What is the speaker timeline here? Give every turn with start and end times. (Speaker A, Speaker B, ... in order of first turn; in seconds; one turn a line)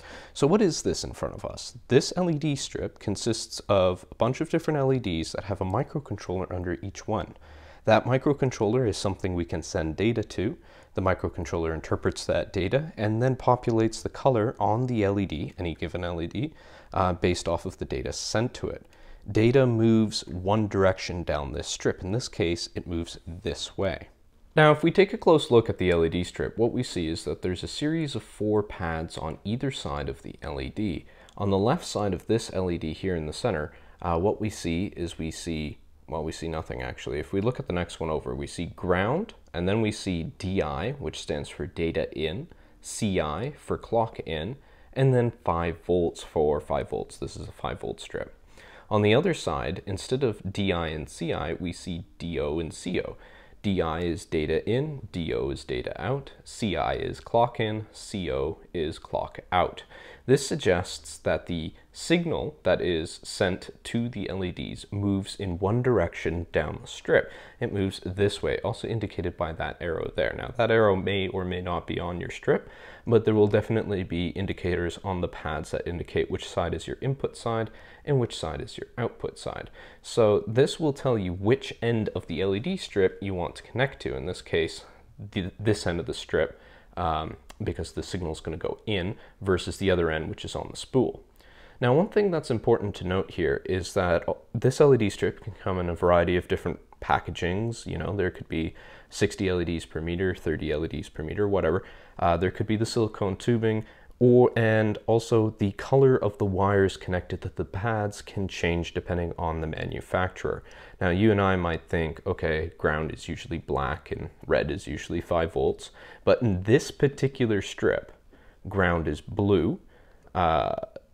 Speaker A: 0.3-48.3
Speaker A: 48.9-91.2
Speaker A: 91.8-118.1
Speaker A: 118.7-119.8
Speaker A: 120.3-120.8